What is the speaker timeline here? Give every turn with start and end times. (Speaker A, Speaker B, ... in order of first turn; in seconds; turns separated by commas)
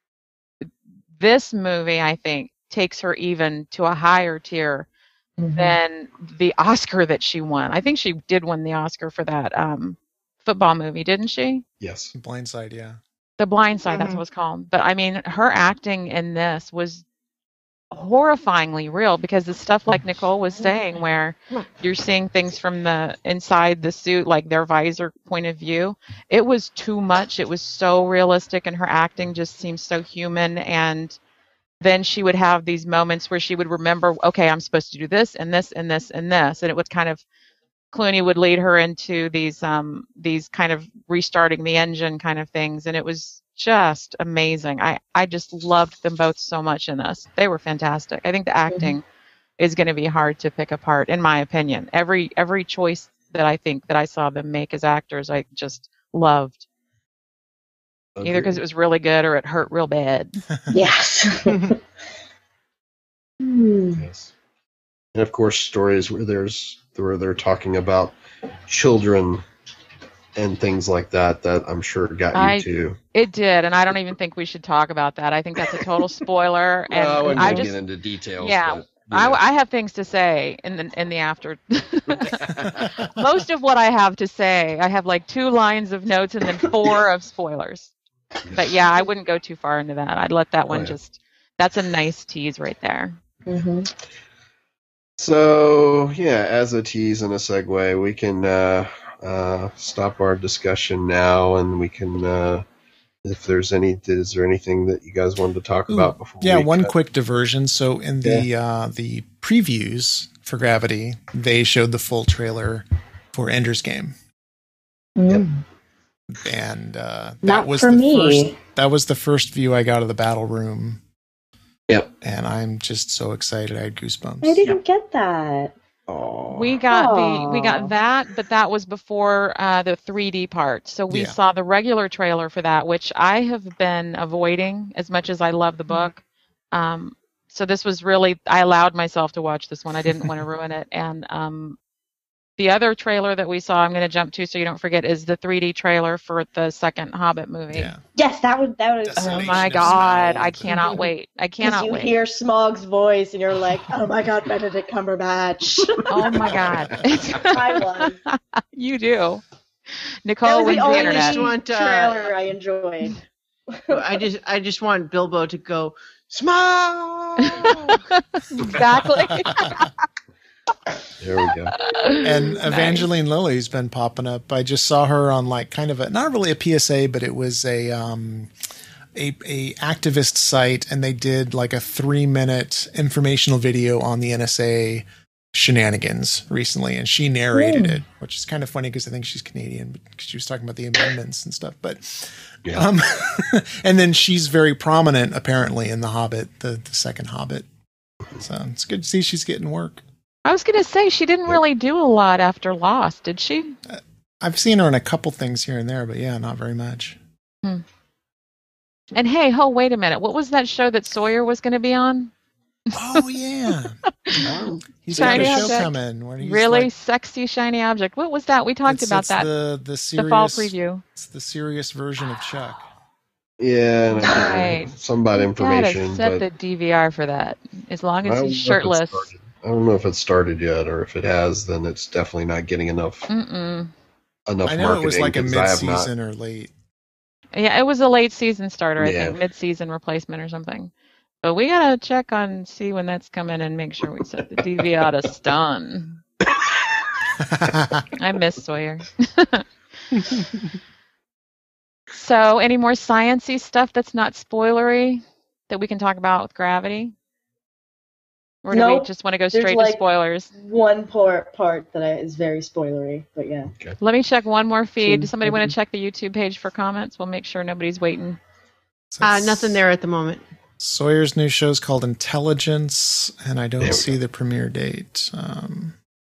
Speaker A: 0.6-4.9, Speaker B: 5.4-5.8, Speaker A: 5.6-11.6, Speaker C: 11.8-12.1, Speaker D: 12.2-13.0, Speaker A: 13.4-17.0, Speaker E: 13.9-14.2, Speaker A: 17.9-31.2, Speaker A: 31.8-37.2, Speaker A: 37.9-49.0, Speaker B: 48.7-49.0, Speaker A: 49.6-56.6, Speaker C: 58.2-58.6, Speaker A: 58.2-60.4, Speaker B: 60.7-61.8, Speaker E: 61.5-61.7, Speaker B: 63.4-64.1, Speaker C: 64.0-64.3, Speaker C: 65.1-68.2, Speaker C: 68.7-69.5, Speaker C: 70.4-73.0, Speaker A: 72.3-77.8, Speaker C: 76.9-79.4, Speaker B: 77.3-77.7, Speaker A: 78.4-87.9, Speaker C: 82.1-83.1, Speaker A: 88.5-93.2, Speaker C: 90.7-91.0, Speaker B: 93.5-93.9, Speaker C: 95.2-102.7, Speaker C: 103.2-106.9, Speaker D: 105.9-114.2, Speaker B: 115.2-115.6, Speaker D: 116.3-121.0, Speaker B: 117.4-118.6, Speaker D: 122.2-124.8, Speaker B: 124.4-125.7, Speaker C: 126.1-126.8, Speaker A: 126.5-136.2, Speaker B: 126.9-127.9, Speaker D: 131.1-131.4, Speaker A: 136.7-141.8, Speaker A: 142.6-147.9, Speaker D: 147.7-148.0, Speaker B: 148.2-150.0, Speaker D: 149.0-150.7, Speaker A: 149.2-152.1, Speaker B: 150.7-151.0, Speaker B: 151.6-156.4, Speaker A: 156.1-159.4, Speaker C: 156.2-157.4, Speaker B: 157.4-158.2, Speaker A: 160.2-161.5, Speaker B: 160.4-163.2, Speaker E: 160.6-162.3, Speaker B: 163.7-164.3, Speaker E: 163.9-168.1, Speaker A: 167.4-169.9, Speaker D: 169.3-169.7, Speaker C: 171.2-171.8, Speaker A: 171.7-173.1, Speaker D: 172.2-178.5, Speaker D: 179.2-197.7, Speaker B: 187.5-188.0, Speaker D: 198.4-200.0, Speaker A: 200.5-203.8, Speaker D: 203.9-207.2, Speaker A: 209.1-212.3, Speaker A: 212.9-213.2, Speaker D: 212.9-214.0, Speaker C: 214.4-215.9, Speaker D: 215.1-216.9, Speaker A: 215.1-219.5, Speaker D: 218.8-222.9, Speaker A: 220.2-221.0, Speaker C: 223.6-226.4, Speaker A: 224.1-229.3, Speaker C: 228.2-233.3, Speaker A: 233.3-233.9, Speaker C: 234.5-236.1, Speaker D: 234.7-236.7, Speaker A: 237.5-240.9, Speaker C: 239.0-239.4, Speaker A: 241.4-246.2, Speaker D: 247.4-248.1, Speaker A: 248.2-249.7, Speaker A: 252.1-257.1, Speaker A: 258.6-260.5, Speaker B: 258.7-260.0, Speaker B: 260.5-263.7, Speaker C: 263.7-264.0, Speaker A: 264.0-268.4, Speaker B: 265.0-265.8, Speaker D: 269.1-269.8, Speaker E: 269.2-270.4, Speaker D: 270.8-276.0, Speaker C: 273.8-274.2